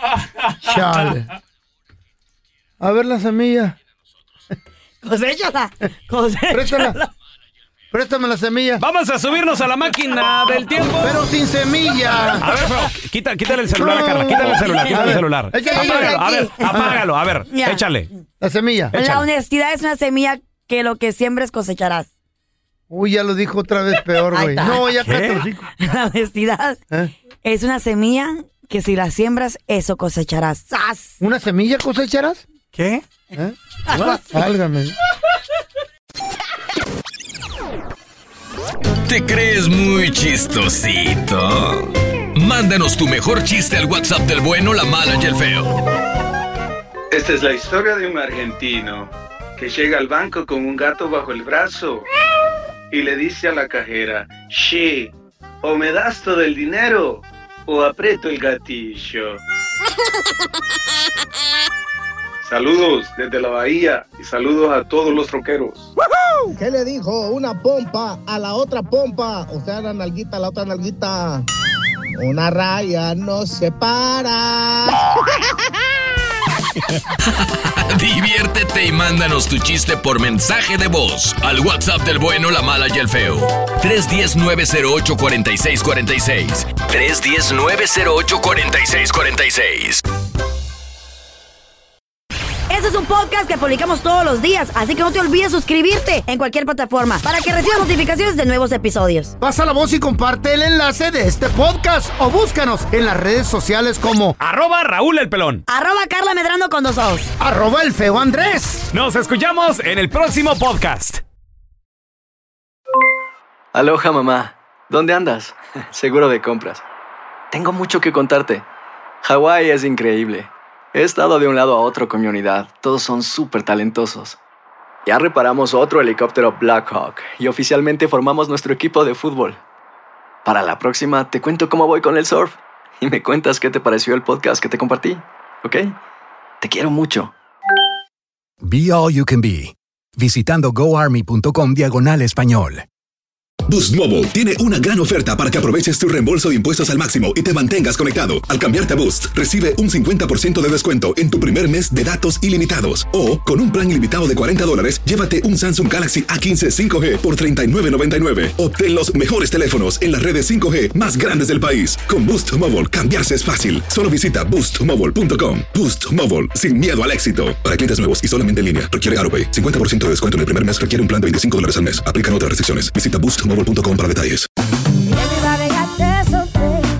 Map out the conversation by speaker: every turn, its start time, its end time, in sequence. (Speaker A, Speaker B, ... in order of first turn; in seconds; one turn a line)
Speaker A: 0.4-1.1
Speaker B: 0.6-1.3
Speaker B: 2.8-3.8
Speaker C: 5.0-7.1
Speaker B: 6.5-7.0
Speaker B: 7.9-8.8
Speaker A: 8.8-11.3
Speaker B: 11.0-12.4
Speaker A: 12.4-18.1
Speaker B: 13.7-17.0
Speaker C: 14.4-16.9
Speaker C: 17.5-17.8
Speaker B: 18.4-18.9
Speaker A: 18.9-19.3
Speaker C: 18.9-22.1
Speaker B: 22.9-25.7
Speaker C: 24.3-25.0
Speaker A: 25.0-25.4
Speaker C: 25.8-26.8
Speaker C: 27.4-31.2
Speaker B: 31.2-32.5
Speaker A: 32.7-33.0
Speaker B: 33.4-35.0
Speaker C: 33.9-34.4
Speaker D: 39.1-45.7
Speaker E: 47.1-52.1
Speaker E: 52.9-55.1
Speaker E: 55.6-59.4
Speaker E: 62.4-65.9
Speaker F: 66.5-71.5
Speaker F: 72.2-75.0
Speaker D: 77.5-90.0
Speaker C: 92.7-99.3
Speaker B: 99.4-104.3
Speaker A: 104.4-105.6
Speaker C: 105.7-107.3
Speaker B: 107.4-108.9
Speaker A: 108.9-111.2
Speaker G: 113.7-116.8
Speaker G: 117.5-118.7
Speaker G: 119.2-124.4
Speaker G: 125.1-129.6
Speaker G: 130.4-136.0
Speaker G: 136.6-137.3
Speaker H: 138.6-142.8
Speaker I: 143.7-174.5
Speaker C: 175.1-176.9